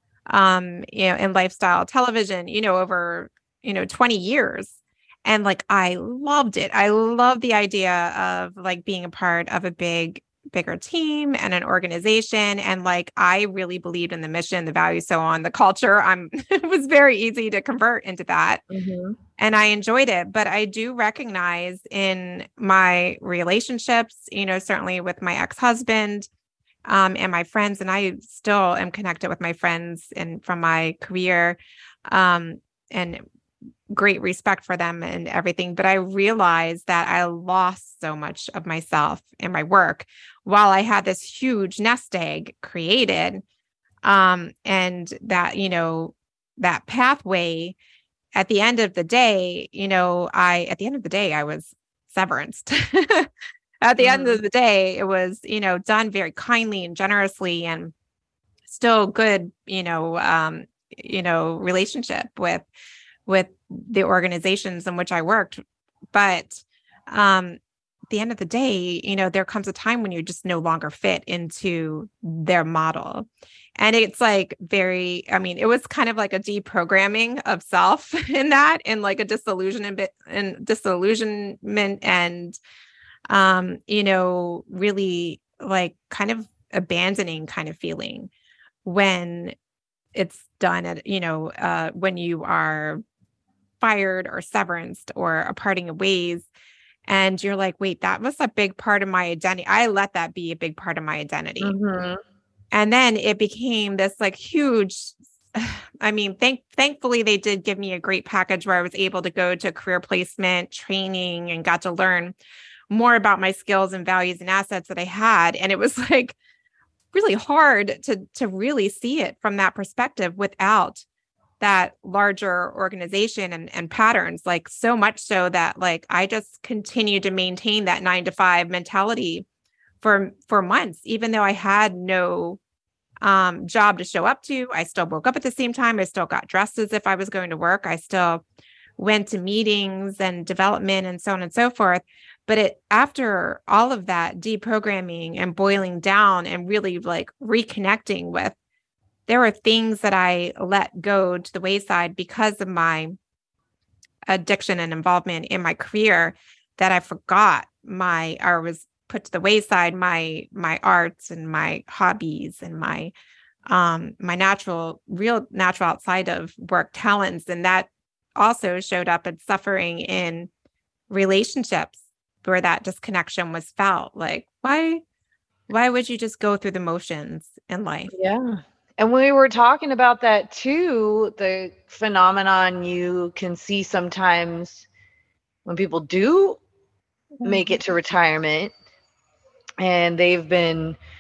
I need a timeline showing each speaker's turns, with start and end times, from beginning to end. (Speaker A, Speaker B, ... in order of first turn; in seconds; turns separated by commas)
Speaker A: 0.3-18.6, Speaker B: 18.7-19.2, Speaker A: 19.4-26.3, Speaker A: 26.9-33.2, Speaker A: 33.9-43.4, Speaker A: 44.0-47.8, Speaker A: 48.4-53.3, Speaker A: 53.8-57.9, Speaker B: 54.0-54.4, Speaker A: 58.7-62.7, Speaker A: 63.3-67.6, Speaker A: 68.1-82.6, Speaker A: 83.3-88.3, Speaker A: 88.8-89.5, Speaker A: 90.2-93.0, Speaker A: 93.8-96.5, Speaker A: 97.1-101.8, Speaker B: 101.6-102.2, Speaker A: 102.7-112.3, Speaker A: 112.9-116.4, Speaker A: 117.1-121.0, Speaker A: 121.6-129.5, Speaker A: 130.0-132.6, Speaker A: 133.2-138.4, Speaker A: 139.0-148.6, Speaker A: 149.3-153.2, Speaker A: 154.3-163.1, Speaker A: 163.7-170.5, Speaker A: 171.1-175.0, Speaker A: 175.7-178.1, Speaker B: 178.1-184.9, Speaker B: 185.7-186.6, Speaker A: 187.4-187.8, Speaker B: 187.4-188.7, Speaker B: 189.8-191.0